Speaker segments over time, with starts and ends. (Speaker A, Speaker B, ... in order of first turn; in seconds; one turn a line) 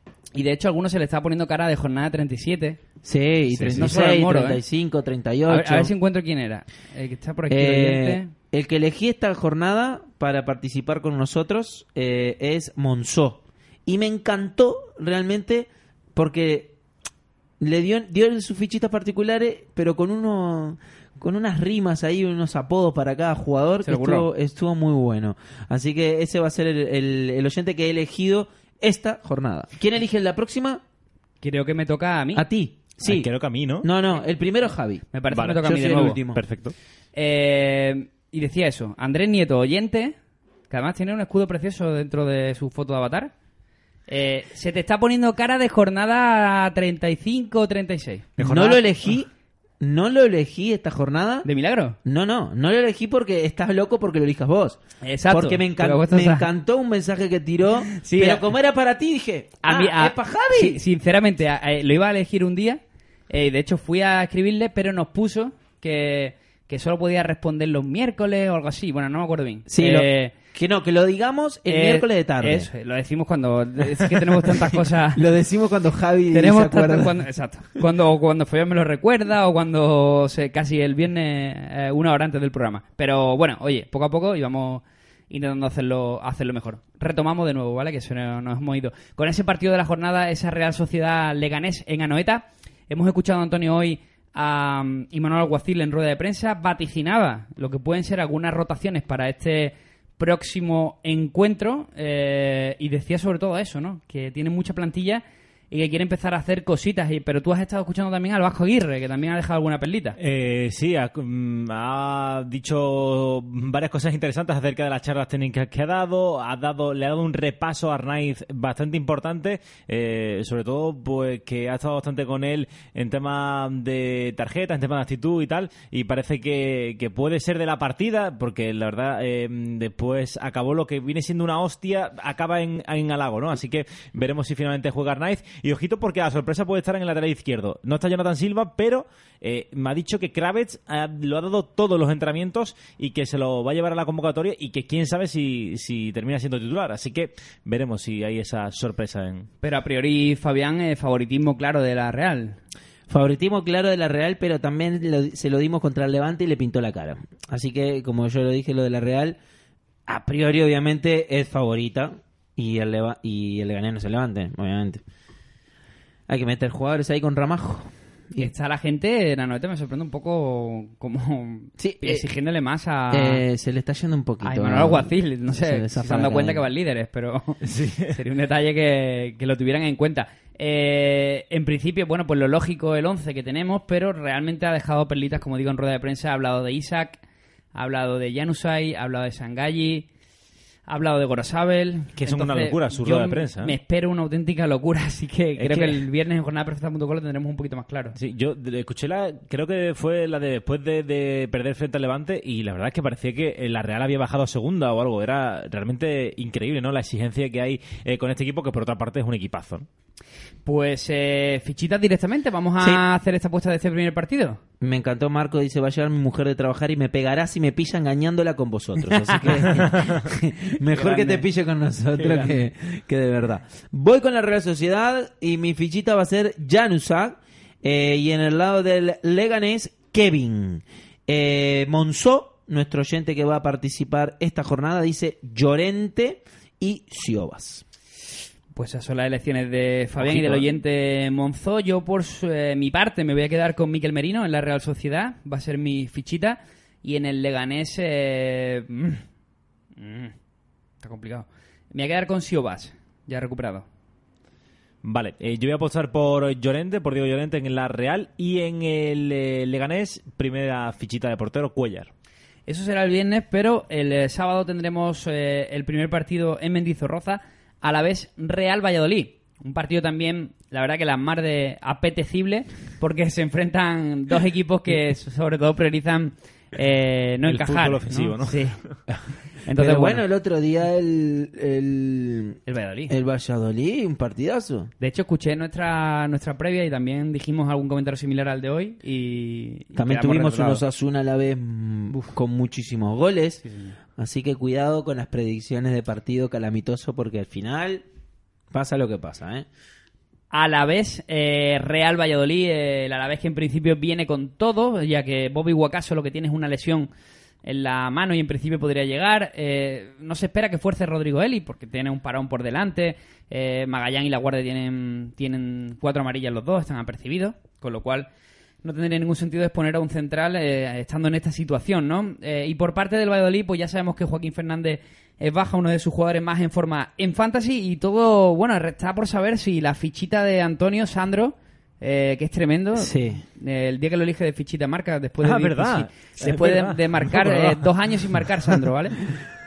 Speaker A: 0.3-2.8
Speaker B: 3.0-5.9
Speaker C: 3.5-3.9
Speaker A: 3.7-4.6
Speaker A: 5.5-8.3
Speaker B: 7.5-16.7
Speaker B: 17.6-30.8
Speaker A: 23.8-24.3
Speaker A: 31.4-32.4
Speaker B: 32.3-33.3
Speaker C: 33.0-33.9
Speaker B: 33.8-36.4
Speaker A: 35.1-36.2
Speaker C: 35.3-35.6
Speaker C: 36.3-36.7
Speaker A: 37.1-40.1
Speaker A: 40.7-43.3
Speaker A: 44.1-48.8
Speaker C: 48.4-48.8
Speaker B: 48.4-49.3
Speaker B: 49.8-51.5
Speaker A: 51.4-52.0
Speaker B: 52.0-60.8
Speaker A: 55.0-56.5
Speaker A: 57.9-58.5
Speaker A: 59.6-70.3
Speaker B: 69.7-72.7
Speaker A: 71.7-75.2
Speaker B: 73.9-77.1
Speaker A: 76.3-110.2
Speaker C: 110.2-149.5
Speaker A: 149.6-152.6
Speaker B: 153.1-159.4
Speaker B: 160.1-165.0
Speaker B: 166.3-168.5
Speaker A: 168.4-173.4
Speaker B: 171.8-172.2
Speaker B: 173.1-176.7
Speaker A: 174.4-187.2
Speaker C: 177.6-178.2
Speaker A: 187.7-190.1
Speaker A: 190.9-198.2
Speaker C: 192.1-193.8
Speaker C: 195.6-196.0
Speaker C: 198.2-209.9
Speaker A: 210.7-214.6
Speaker B: 214.8-237.8
Speaker A: 219.1-219.8
Speaker A: 220.8-221.4
Speaker A: 222.2-222.5
Speaker A: 238.8-249.2
Speaker C: 240.2-240.7
Speaker A: 250.0-250.3
Speaker A: 251.0-253.8
Speaker C: 255.0-262.1
Speaker A: 262.7-278.8
Speaker C: 277.4-278.9
Speaker A: 279.6-280.2
Speaker B: 279.7-282.6
Speaker A: 282.6-283.1
Speaker B: 283.1-284.9
Speaker A: 285.0-290.8
Speaker B: 289.9-293.6
Speaker A: 293.6-293.9
Speaker B: 294.2-298.0
Speaker B: 298.7-299.6
Speaker A: 300.5-307.1
Speaker A: 307.6-318.3
Speaker A: 318.8-339.2
Speaker B: 332.9-333.4
Speaker C: 335.4-337.9